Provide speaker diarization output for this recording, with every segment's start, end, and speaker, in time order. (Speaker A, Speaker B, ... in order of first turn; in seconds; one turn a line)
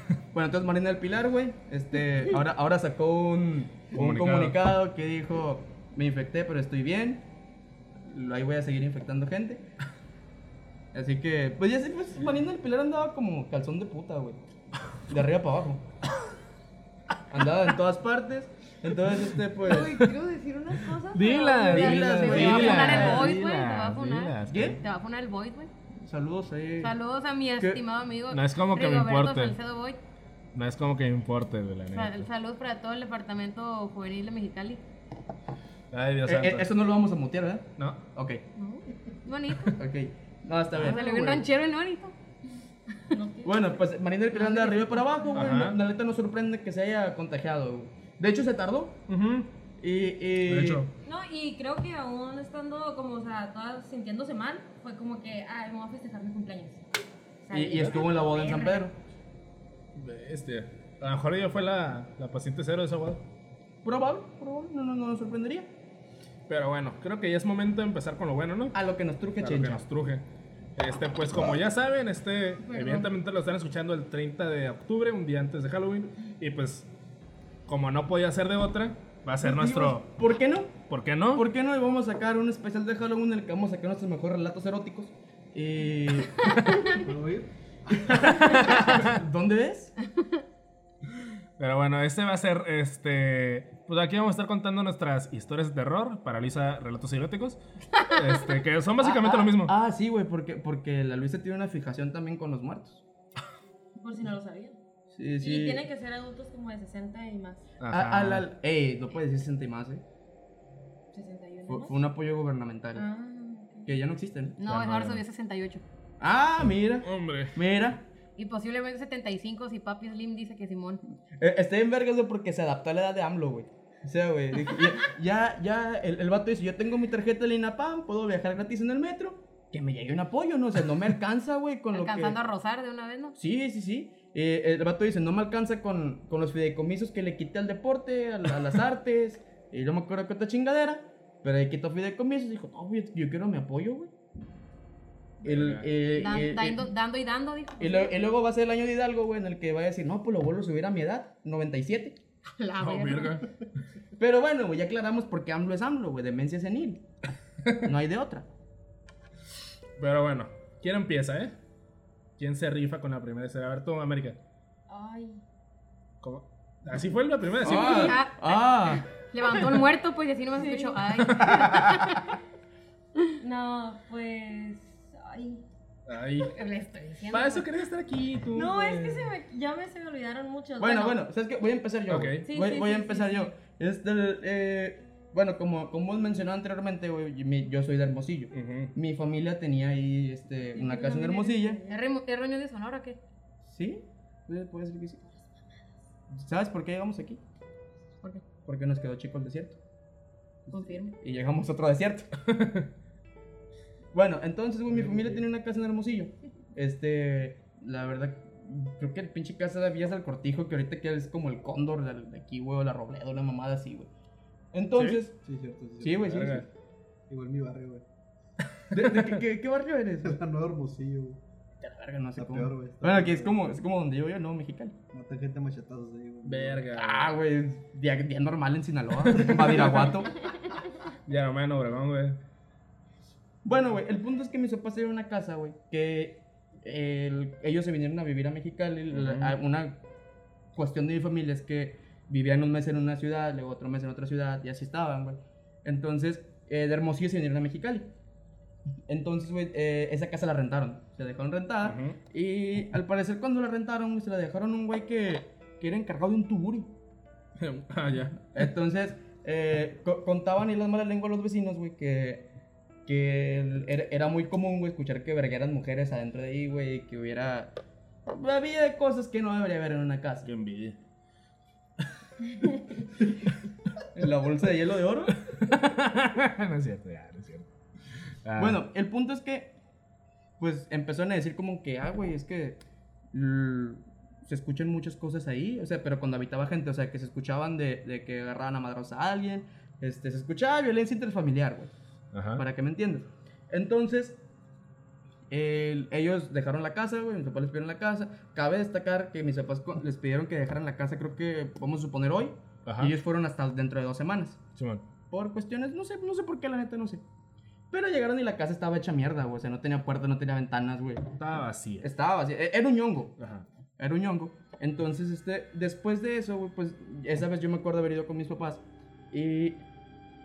Speaker A: 0.3-7.2
Speaker B: 3.9-4.6
Speaker A: 8.0-9.6
Speaker A: 10.9-14.4
Speaker A: 15.1-15.8
Speaker A: 17.3-20.0
Speaker C: 19.6-22.0
Speaker B: 19.8-20.1
Speaker D: 20.0-20.8
Speaker B: 21.1-24.8
Speaker D: 21.6-25.7
Speaker A: 21.7-23.3
Speaker A: 24.5-24.8
Speaker A: 26.0-26.9
Speaker D: 26.8-30.0
Speaker B: 28.3-29.6
Speaker B: 30.5-32.3
Speaker D: 31.9-34.8
Speaker B: 35.9-36.7
Speaker A: 36.2-38.4
Speaker B: 37.8-38.0
Speaker D: 38.5-39.8
Speaker A: 39.8-41.0
Speaker B: 40.8-41.4
Speaker D: 40.8-42.1
Speaker C: 43.1-43.8
Speaker A: 43.4-49.0
Speaker D: 44.3-45.4
Speaker B: 45.3-45.8
Speaker B: 49.1-49.5
Speaker A: 49.8-50.9
Speaker B: 50.4-50.9
Speaker C: 51.0-56.8
Speaker C: 57.4-58.8
Speaker A: 57.5-58.9
Speaker B: 57.7-58.0
Speaker B: 59.9-63.2
Speaker A: 63.8-65.7
Speaker B: 66.5-68.8
Speaker A: 68.7-69.8
Speaker B: 69.4-70.2
Speaker B: 70.8-76.9
Speaker D: 72.7-73.1
Speaker B: 77.7-80.1
Speaker A: 79.4-86.5
Speaker B: 80.8-81.4
Speaker E: 86.9-88.7
Speaker A: 88.1-89.9
Speaker B: 88.4-89.2
Speaker B: 91.6-99.7
Speaker A: 99.0-103.0
Speaker C: 104.0-104.8
Speaker A: 105.1-105.8
Speaker C: 105.4-107.7
Speaker B: 107.8-108.5
Speaker A: 107.9-110.0
Speaker C: 111.1-112.0
Speaker A: 111.7-113.0
Speaker C: 112.9-114.0
Speaker A: 113.8-114.6
Speaker D: 114.6-115.8
Speaker B: 114.7-115.2
Speaker A: 116.2-118.0
Speaker B: 117.0-117.6
Speaker D: 118.4-121.0
Speaker A: 121.4-132.4
Speaker D: 131.9-133.3
Speaker A: 133.3-144.1
Speaker A: 145.4-146.8
Speaker B: 145.4-145.9
Speaker D: 146.1-148.1
Speaker A: 147.8-152.2
Speaker D: 152.6-153.4
Speaker B: 152.8-153.5
Speaker A: 154.2-157.0
Speaker B: 157.6-157.9
Speaker A: 157.8-158.5
Speaker B: 160.0-161.5
Speaker B: 162.4-164.4
Speaker C: 164.9-165.4
Speaker B: 166.2-168.2
Speaker A: 167.6-169.0
Speaker D: 167.7-172.3
Speaker C: 170.6-171.0
Speaker B: 171.2-171.9
Speaker C: 173.4-175.6
Speaker B: 176.1-176.5
Speaker D: 176.4-177.7
Speaker B: 177.3-179.3
Speaker C: 178.5-181.2
Speaker A: 180.8-191.8
Speaker B: 182.1-182.5
Speaker C: 182.4-183.5
Speaker B: 188.5-188.9
Speaker C: 190.7-192.0
Speaker D: 191.9-193.2
Speaker A: 193.6-195.3
Speaker A: 196.3-197.4
Speaker A: 198.6-199.8
Speaker A: 200.7-202.3
Speaker D: 200.7-201.1
Speaker B: 202.5-202.9
Speaker A: 204.1-214.1
Speaker E: 204.9-205.4
Speaker A: 214.7-215.3
Speaker B: 214.9-215.2
Speaker E: 215.4-216.6
Speaker A: 216.0-216.7
Speaker B: 216.2-216.6
Speaker E: 217.3-218.0
Speaker B: 218.8-219.4
Speaker A: 218.9-220.4
Speaker E: 220.2-221.4
Speaker A: 221.8-224.9
Speaker E: 222.3-223.6
Speaker E: 225.1-226.9
Speaker B: 226.4-227.3
Speaker A: 226.9-230.4
Speaker B: 229.2-230.1
Speaker B: 231.3-232.4
Speaker A: 233.6-240.0
Speaker B: 239.1-239.6
Speaker A: 240.7-248.1
Speaker A: 249.1-256.9
Speaker B: 251.8-252.2
Speaker B: 257.6-258.5
Speaker A: 258.5-262.4
Speaker A: 263.1-267.7
Speaker A: 268.3-270.5
Speaker B: 270.4-271.0
Speaker A: 274.1-275.3
Speaker B: 275.3-277.7
Speaker B: 278.4-278.8
Speaker A: 278.6-279.7
Speaker A: 280.6-282.8
Speaker A: 283.3-291.9
Speaker B: 292.3-292.6
Speaker A: 292.6-294.4
Speaker A: 295.5-304.6
Speaker B: 302.9-303.1
Speaker B: 304.7-305.0
Speaker A: 305.3-307.2
Speaker A: 307.9-311.3
Speaker B: 311.4-312.1
Speaker A: 312.0-313.4
Speaker B: 313.4-313.6
Speaker A: 314.0-319.8